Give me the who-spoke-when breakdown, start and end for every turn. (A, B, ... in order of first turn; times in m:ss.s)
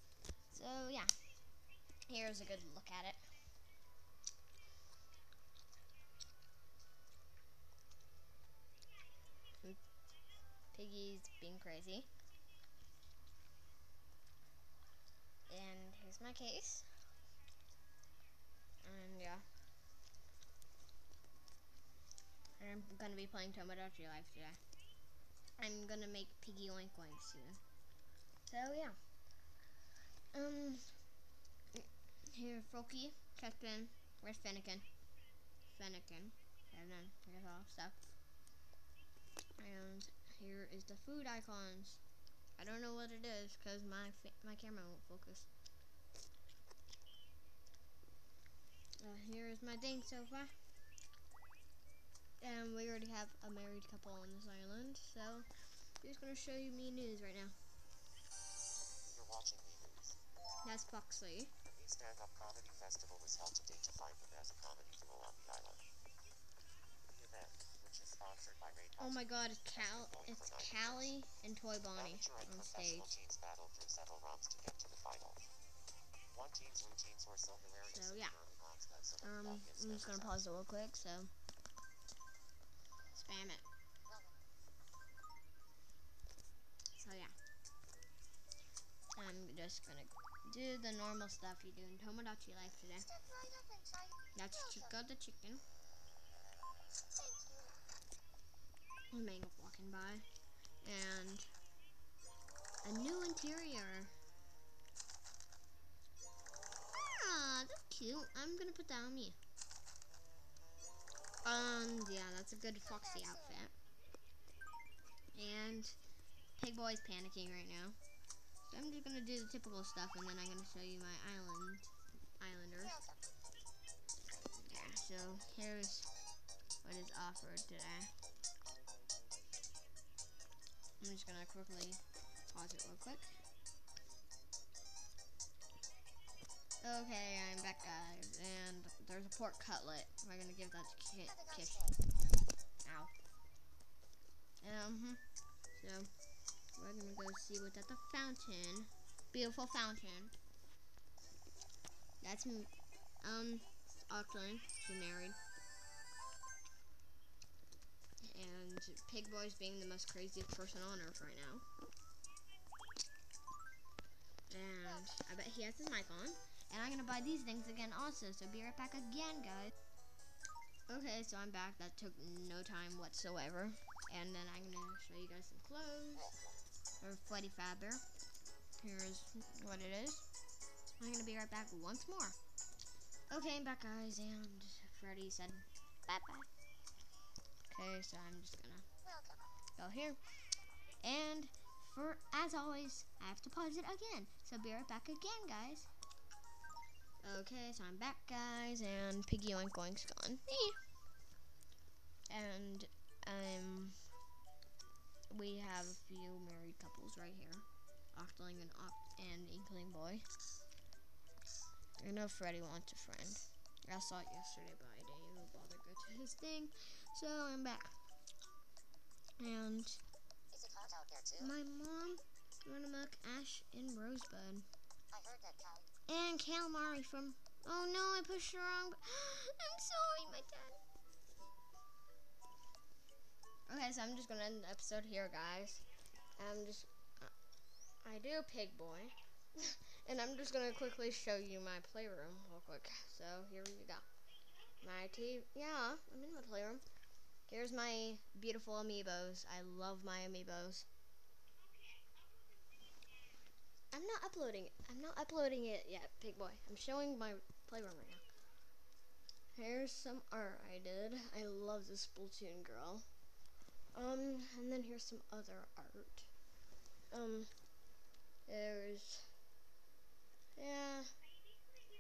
0:00.5-0:01.1 A
0:02.1-0:03.4 A
0:10.7-0:12.1 A
0:15.5-0:16.9 A
0:18.8-0:19.5 A
0:22.6-0:24.6 A
0:25.6-0:27.6 A
0:28.5-0:29.0 A
0:30.3-0:31.0 A
0:31.7-0:34.9 A
0:35.7-0:38.0 A
0:39.6-0:42.0 A
0:42.6-0:45.5 A
0:49.0-0:50.6 A
0:52.4-0:57.6 A
0:59.1-1:00.2 B
1:00.6-1:01.5 A
1:01.7-1:05.8 B
1:07.1-1:11.2 B
1:09.0-1:13.1 A
1:12.0-1:15.4 B
1:16.3-1:20.5 B
1:17.9-1:18.4 A
1:19.2-1:21.3 A
1:23.1-1:23.6 A
1:27.0-1:27.4 A
1:29.2-1:33.2 A
1:33.2-1:34.1 C
1:34.4-1:35.6 A
1:37.1-1:37.8 C
1:39.1-1:40.3 A
1:40.8-1:41.5 A
1:42.8-1:44.2 A
1:47.0-1:49.4 A
1:51.4-1:53.7 A
1:55.3-1:56.0 A
1:56.6-1:58.0 A
1:58.6-2:03.0 A
2:04.5-2:06.1 A
2:06.8-2:08.1 A
2:11.0-2:13.4 A
2:16.8-2:22.0 A
2:22.8-2:23.1 A
2:24.6-2:25.2 A
2:25.7-2:26.1 A
2:26.7-2:30.3 A
2:32.2-2:35.4 A
2:38.2-2:41.6 A
2:44.5-2:49.7 A
2:50.9-2:56.4 A
2:57.0-2:58.0 A
2:58.8-3:00.3 A
3:01.0-3:02.4 A
3:03.3-3:06.5 A
3:07.7-3:08.9 A
3:09.1-3:09.4 C
3:09.8-3:10.2 A
3:11.0-3:15.9 A
3:17.2-3:20.8 A
3:22.3-3:24.0 A
3:25.3-3:30.3 A
3:32.0-3:38.0 A
3:39.4-3:40.0 A
3:40.5-3:41.4 C
3:41.4-3:44.7 A
3:45.1-3:45.9 C
3:46.1-3:50.8 A
3:53.7-3:55.8 A
3:56.4-3:57.3 A
3:58.0-4:04.1 A
4:04.8-4:06.8 A
4:07.5-4:10.9 A
4:13.9-4:18.2 A
4:19.6-4:23.1 A
4:23.9-4:26.3 A
4:27.1-4:27.5 A
4:28.5-4:29.4 A
4:30.6-4:31.2 A